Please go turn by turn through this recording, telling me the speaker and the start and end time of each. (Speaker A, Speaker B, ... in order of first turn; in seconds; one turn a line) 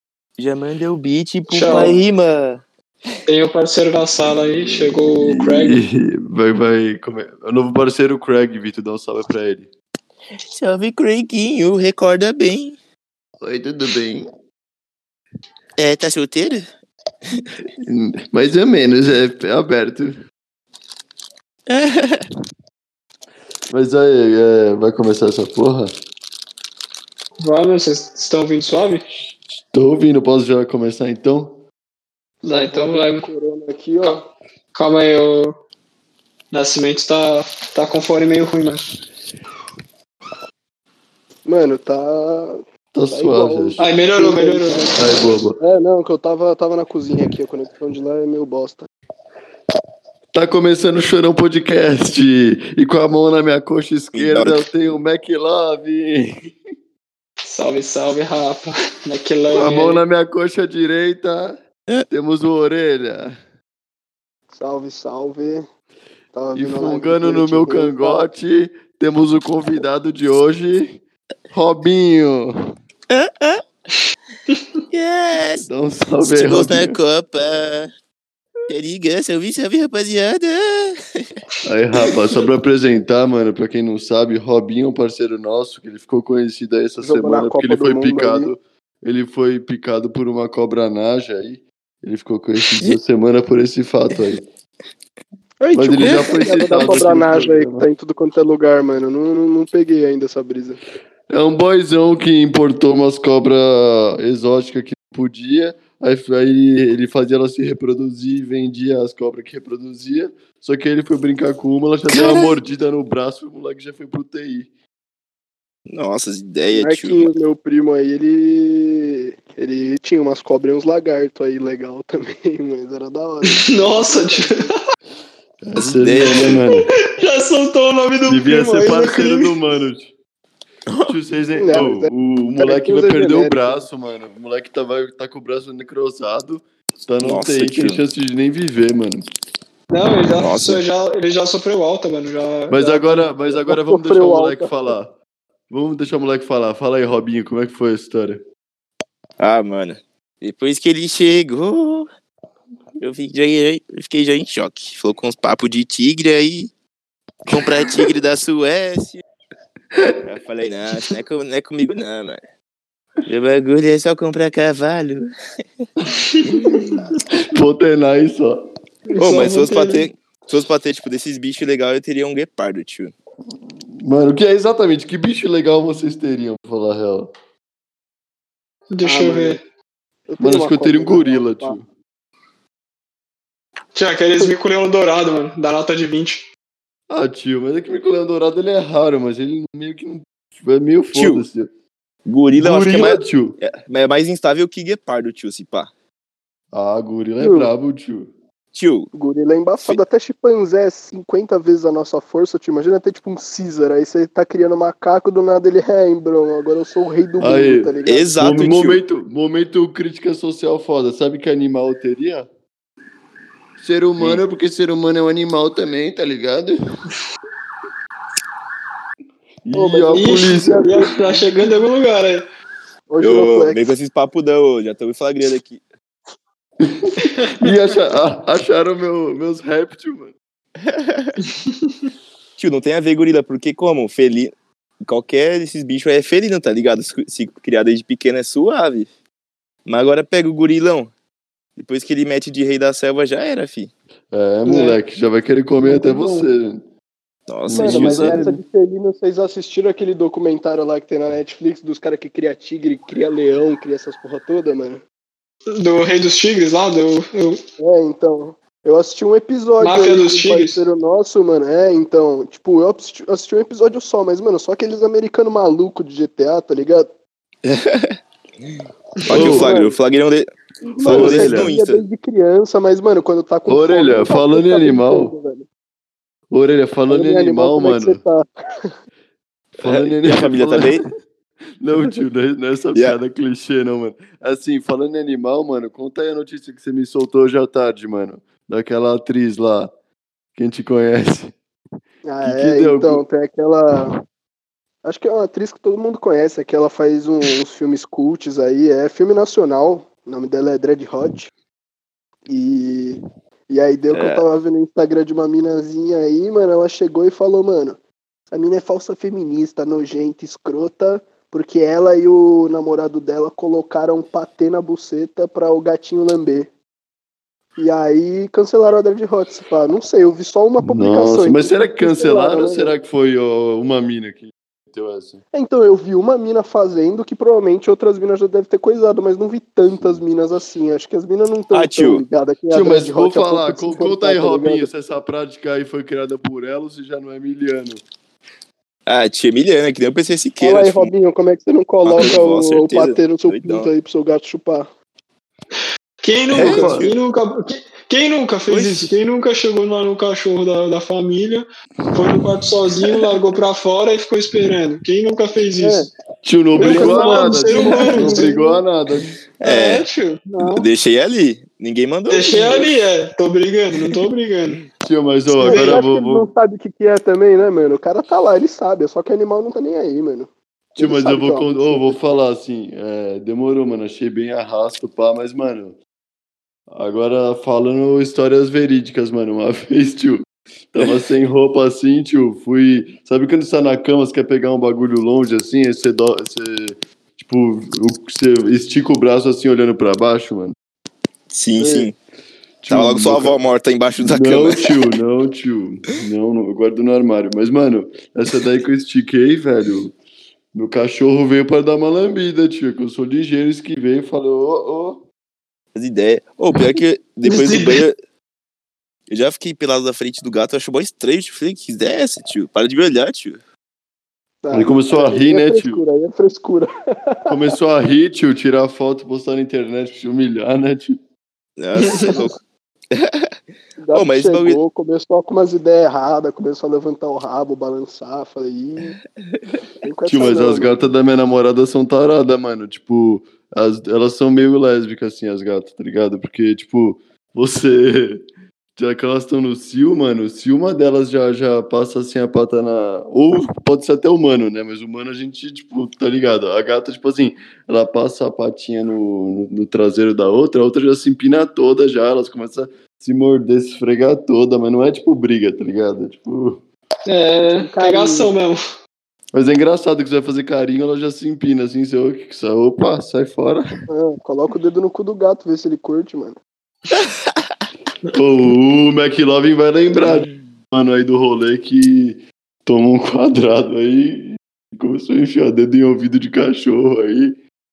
Speaker A: 0.4-2.6
Speaker B: 1.5-2.0
Speaker B: 3.3-5.8
Speaker C: 4.3-9.7
Speaker A: 10.5-12.8
Speaker C: 13.4-14.3
Speaker A: 15.8-16.7
Speaker C: 17.8-20.2
Speaker A: 21.7-22.2
Speaker C: 23.7-25.9
Speaker B: 27.4-29.1
Speaker C: 29.7-31.6
Speaker B: 32.4-33.3
Speaker D: 32.4-34.2
Speaker B: 34.7-35.5
Speaker B: 36.5-38.8
Speaker D: 41.5-45.0
Speaker C: 42.9-43.8
Speaker B: 43.8-45.0
Speaker C: 45.0-45.6
Speaker D: 45.6-48.9
Speaker C: 50.3-56.5
Speaker A: 54.1-54.6
Speaker B: 57.5-60.0
Speaker C: 59.5-61.6
Speaker C: 62.1-63.4
Speaker D: 64.5-65.7
Speaker D: 66.3-68.3
Speaker C: 66.5-71.0
Speaker C: 71.5-72.5
Speaker A: 73.1-73.6
Speaker A: 74.9-75.7
Speaker C: 75.7-77.0
Speaker A: 76.2-77.9
Speaker A: 78.7-81.2
Speaker C: 81.6-94.4
Speaker D: 87.0-88.5
Speaker D: 95.6-100.8
Speaker C: 95.7-97.9
Speaker A: 96.0-97.0
Speaker C: 101.3-114.7
Speaker A: 112.1-112.5
Speaker A: 115.9-117.3
Speaker D: 116.7-124.6
Speaker B: 123.5-124.7
Speaker C: 125.6-126.9
Speaker A: 126.0-126.6
Speaker B: 126.2-129.6
Speaker C: 128.2-130.1
Speaker A: 130.9-131.1
Speaker C: 131.1-139.2
Speaker D: 131.6-133.8
Speaker A: 137.2-138.0
Speaker B: 139.9-143.2
Speaker A: 140.4-140.8
Speaker C: 142.7-145.1
Speaker D: 143.5-144.9
Speaker C: 145.7-148.4
Speaker A: 149.4-152.1
Speaker A: 153.0-156.7
Speaker A: 157.5-159.2
Speaker C: 157.5-158.1
Speaker A: 160.2-162.4
Speaker A: 163.2-165.3
Speaker B: 166.3-166.7
Speaker C: 167.5-168.6
Speaker B: 169.1-170.1
Speaker A: 169.2-173.1
Speaker C: 173.9-177.3
Speaker B: 178.9-179.6
Speaker D: 179.0-179.6
Speaker D: 180.3-181.8
Speaker C: 180.4-181.9
Speaker B: 183.9-186.5
Speaker C: 187.1-191.7
Speaker A: 191.1-191.4
Speaker A: 192.2-195.9
Speaker C: 192.6-193.6
Speaker C: 196.7-198.3
Speaker D: 197.4-197.7
Speaker A: 198.7-199.1
Speaker D: 199.1-208.3
Speaker C: 207.4-212.5
Speaker A: 208.1-209.0
Speaker C: 213.8-216.8
Speaker C: 219.6-221.1
Speaker D: 219.7-221.4
Speaker B: 220.1-222.4
Speaker D: 223.1-223.8
Speaker A: 223.2-225.8
Speaker C: 226.8-230.3
Speaker B: 227.4-227.7
Speaker A: 230.8-231.4
Speaker A: 232.6-234.5
Speaker A: 235.0-239.1
Speaker A: 239.8-241.1
Speaker A: 241.8-243.9
Speaker C: 244.3-246.8
Speaker B: 244.7-245.0
Speaker B: 245.8-246.5
Speaker A: 247.5-248.5
Speaker C: 247.7-248.6
Speaker D: 247.7-255.0
Speaker B: 255.7-257.6
Speaker D: 257.8-267.1
Speaker B: 259.8-260.8
Speaker A: 267.6-268.2
Speaker C: 269.3-269.8
Speaker A: 269.3-270.5
Speaker D: 269.3-270.0
Speaker D: 270.8-275.6
Speaker A: 271.0-272.0
Speaker C: 271.0-271.7
Speaker C: 273.7-275.3
Speaker C: 276.5-278.2
Speaker D: 277.1-278.9
Speaker A: 279.8-281.1
Speaker C: 279.8-281.1
Speaker C: 281.8-289.9
Speaker C: 290.6-291.6
Speaker D: 292.2-294.2
Speaker C: 292.4-293.2
Speaker D: 295.0-301.5
Speaker D: 302.5-308.0
Speaker A: 304.1-304.4
Speaker D: 308.5-316.7
Speaker D: 317.8-322.9
Speaker C: 320.8-325.4
Speaker D: 325.5-334.9
Speaker A: 331.7-332.2
Speaker C: 332.7-338.0
Speaker A: 339.1-341.1
Speaker D: 340.6-344.9
Speaker A: 342.0-343.9
Speaker B: 346.2-356.1
Speaker A: 346.5-347.1
Speaker C: 346.6-347.1
Speaker A: 348.7-349.1
Speaker D: 355.8-356.1
Speaker C: 356.4-359.4
Speaker B: 356.8-358.6
Speaker D: 356.8-358.8
Speaker A: 359.6-360.1
Speaker B: 359.6-360.9
Speaker A: 360.6-362.9
Speaker B: 362.3-364.8
Speaker C: 365.0-366.5
Speaker D: 365.6-372.3
Speaker B: 365.6-366.0
Speaker C: 371.0-376.0
Speaker C: 376.9-390.7
Speaker A: 391.5-392.1
Speaker D: 391.8-392.1
Speaker C: 392.8-393.6
Speaker A: 392.9-395.1
Speaker C: 394.2-400.1
Speaker C: 400.7-405.2
Speaker A: 405.9-408.2
Speaker B: 407.5-407.9
Speaker A: 409.3-413.6
Speaker D: 414.6-417.6
Speaker C: 414.7-416.0
Speaker C: 417.5-421.2
Speaker A: 421.8-422.6
Speaker B: 422.0-422.4
Speaker A: 423.1-423.5
Speaker D: 424.0-429.2
Speaker A: 424.1-424.8
Speaker D: 430.0-430.9
Speaker C: 430.2-438.4
Speaker C: 439.0-456.8
Speaker B: 457.3-458.9
Speaker D: 457.6-458.5
Speaker C: 459.5-463.9
Speaker D: 464.1-466.6
Speaker C: 468.3-477.6
Speaker A: 470.3-470.6